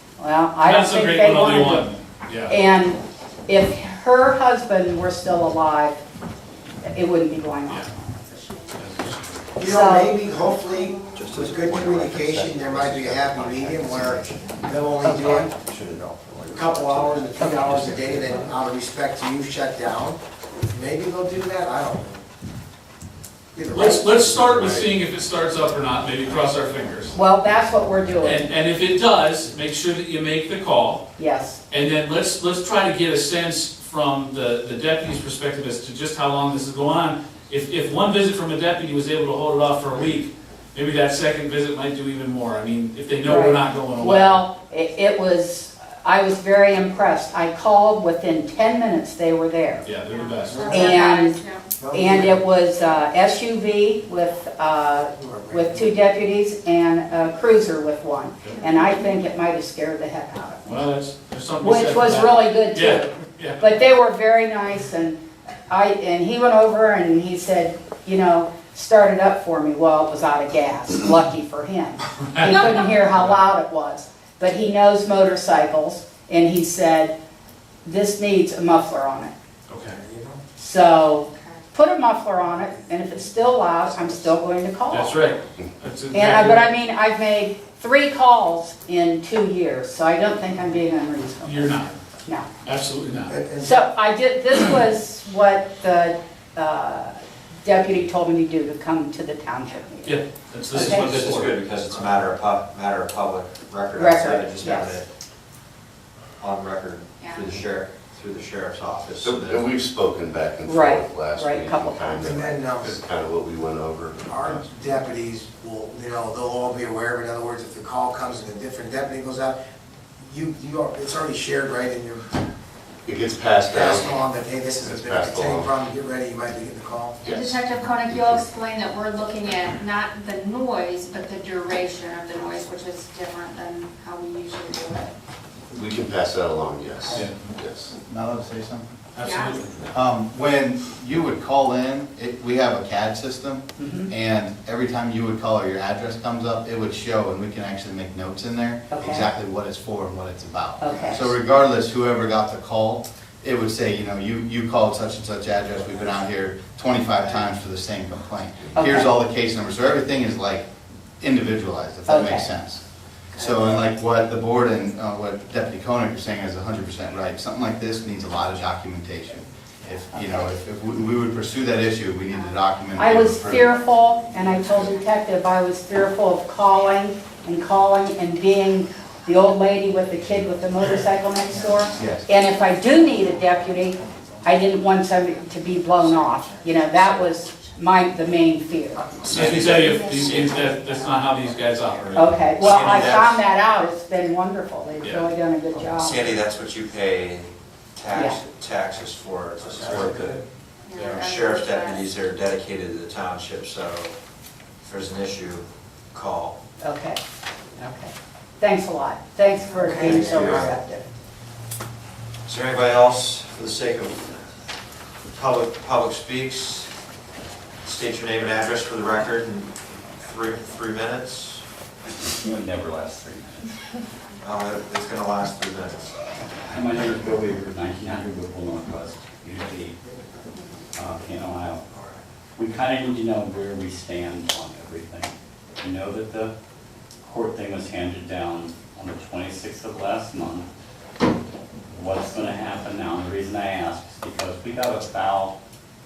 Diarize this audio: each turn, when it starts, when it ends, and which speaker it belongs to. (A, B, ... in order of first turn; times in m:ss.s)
0:00.2-0:01.9 A
0:00.6-0:02.6 B
0:02.5-0:06.0 A
0:06.8-0:08.1 A
0:08.2-0:08.8 C
0:08.8-0:09.5 B
0:09.6-0:15.5 D
0:09.6-0:10.2 A
0:10.3-0:11.2 C
0:11.4-0:14.2 E
0:15.0-0:15.5 A
0:15.7-0:18.3 E
0:16.5-0:22.2 D
0:17.3-0:17.8 A
0:23.5-0:25.0 D
0:23.7-0:27.2 B
0:27.1-0:28.5 A
0:28.2-0:31.0 B
0:31.2-0:31.6 A
0:31.7-0:44.4 B
0:43.2-0:49.9 A
0:49.8-0:50.9 B
0:50.1-0:51.8 C
0:50.5-0:50.9 D
0:50.7-1:00.7 A
0:51.8-0:52.4 D
0:55.1-0:55.9 D
0:58.4-0:58.7 B
0:58.8-0:59.1 C
1:00.6-1:03.6 B
1:01.6-1:17.2 A
1:12.2-1:12.8 B
1:17.8-1:19.3 A
1:19.7-1:20.0 B
1:19.9-1:20.4 D
1:20.6-1:25.2 A
1:21.2-1:21.6 C
1:22.6-1:24.4 D
1:24.9-1:26.7 B
1:26.1-1:32.5 A
1:31.4-1:31.9 B
1:32.6-1:33.4 B
1:33.3-1:33.8 D
1:33.6-1:40.2 A
1:40.0-1:41.5 B
1:40.7-1:41.1 A
1:40.7-1:45.1 F
1:44.0-1:45.0 A
1:46.4-1:49.6 F
1:47.2-1:47.5 C
1:49.2-1:54.7 E
1:50.6-1:52.3 A
1:52.2-1:53.0 D
1:54.2-1:59.6 D
2:00.2-2:02.3 D
2:03.1-2:04.2 E
2:03.7-2:07.2 D
2:04.7-2:05.8 E
2:07.2-2:08.4 E
2:07.3-2:15.2 C
2:15.7-2:17.9 E
2:18.0-2:18.9 G
2:19.1-2:19.9 B
2:19.2-2:19.6 C
2:19.9-2:40.7 G
2:23.8-2:24.1 A
2:28.9-2:29.3 A
2:30.8-2:31.3 A
2:38.8-2:39.1 A
2:41.2-2:42.8 G
2:42.1-2:42.5 A
2:43.4-2:53.7 G
2:50.1-2:50.5 A
2:52.3-2:52.6 C
2:53.0-3:09.1 A
3:02.0-3:02.3 G
3:06.6-3:07.8 C
3:09.2-3:10.7 F
3:09.3-3:12.3 B
3:10.4-3:11.3 C
3:11.9-3:13.4 F
3:12.1-3:16.4 A
3:15.0-3:15.3 B
3:15.9-3:20.4 F
3:18.1-3:18.4 A
3:19.6-3:20.4 D
3:19.9-3:20.2 B
3:20.8-3:22.0 C
3:21.0-3:24.1 F
3:24.8-3:26.6 F
3:26.8-3:27.2 A
3:27.8-3:31.0 A
3:29.7-3:30.4 C
3:30.0-3:30.8 F
3:32.5-3:34.4 F
3:35.3-3:36.9 F
3:37.8-3:41.6 F
3:42.2-3:43.7 H
3:44.4-3:46.2 F
3:46.7-3:50.0 H
3:50.5-3:50.8 C
3:51.0-3:51.8 H
3:52.6-3:56.5 H
3:57.2-4:00.7 H
4:01.9-4:05.6 H